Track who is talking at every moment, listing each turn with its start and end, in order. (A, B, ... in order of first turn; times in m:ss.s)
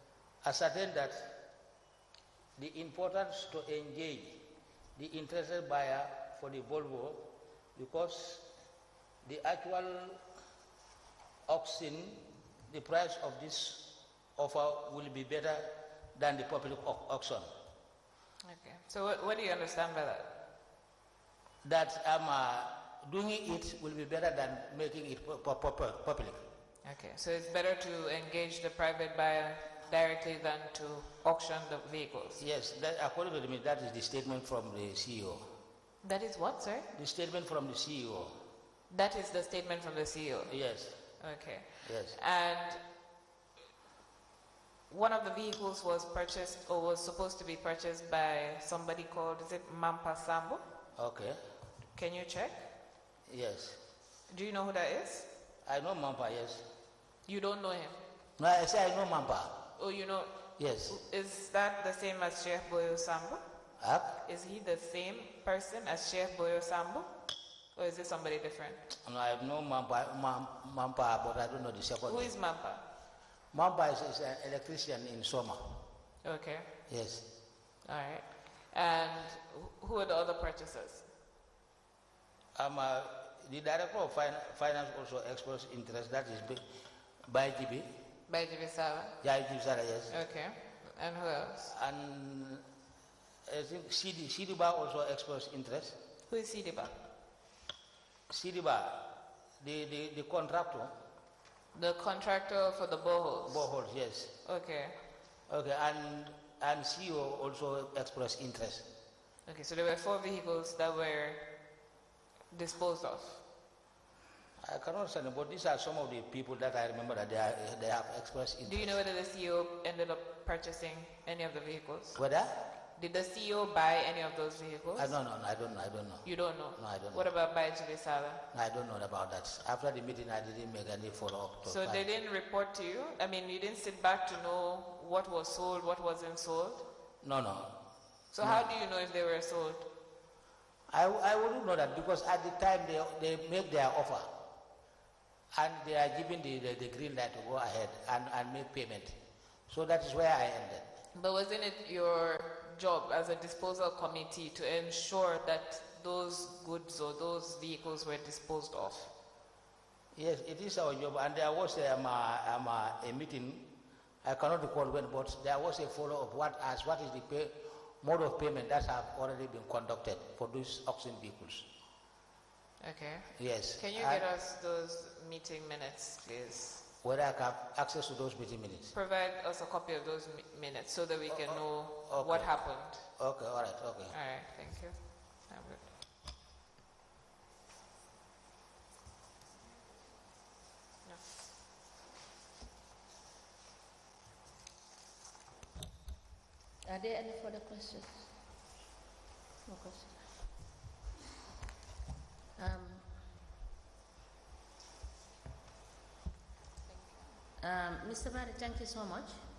0:00.4-0:01.4 A
0:02.6-0:08.5 A
0:09.2-0:10.2 A
0:11.5-0:17.5 A
0:18.4-0:20.3 B
0:21.6-0:26.4 A
0:26.8-0:32.4 B
0:32.4-0:35.5 A
0:36.0-0:36.9 B
0:36.9-0:38.3 A
0:38.9-0:42.8 B
0:40.5-0:41.0 A
0:41.8-0:42.2 A
0:44.9-0:50.6 B
0:51.0-0:51.4 A
0:51.9-0:52.6 B
0:53.3-0:53.8 A
0:54.3-0:55.3 B
0:55.6-0:56.7 A
0:57.3-0:58.0 B
0:58.4-0:59.7 A
0:59.8-1:03.4 B
1:00.6-1:01.0 A
1:03.8-1:04.2 A
1:04.2-1:07.1 B
1:07.8-1:08.8 B
1:09.0-1:12.3 A
1:12.0-1:12.8 B
1:13.5-1:15.8 A
1:16.2-1:16.7 B
1:16.9-1:17.3 A
1:17.8-1:21.1 B
1:22.6-1:26.6 A
1:27.3-1:27.9 A
1:28.3-1:29.2 B
1:29.2-1:30.2 A
1:30.1-1:31.7 B
1:31.6-1:32.6 A
1:33.5-1:36.0 A
1:36.3-1:37.0 B
1:38.3-1:40.9 A
1:41.7-1:43.7 B
1:43.5-1:44.3 A
1:44.4-1:45.0 B
1:45.5-1:48.9 A
1:49.5-1:51.5 B
1:52.5-1:53.4 B
1:54.6-1:59.0 A
1:58.6-2:02.2 B
2:02.2-2:02.6 A
2:03.0-2:05.2 B
2:05.0-2:07.3 A
2:06.2-2:08.4 B
2:08.5-2:12.0 A
2:11.6-2:16.9 B
2:17.2-2:17.8 A
2:18.3-2:19.9 B
2:18.4-2:18.7 A
2:20.9-2:24.3 A
2:25.5-2:29.2 A
2:29.7-2:30.9 A
2:31.1-2:39.1 B
2:40.2-2:43.7 A
2:44.2-2:51.7 A
2:52.8-2:56.8 B
2:53.4-2:54.2 A
2:57.0-2:58.9 A
2:58.9-3:03.2 B
3:01.3-3:04.2 A
3:04.1-3:05.8 B
3:16.8-3:18.3 C
3:19.7-3:20.2 C
3:22.6-3:23.2 C
3:27.6-3:29.4 C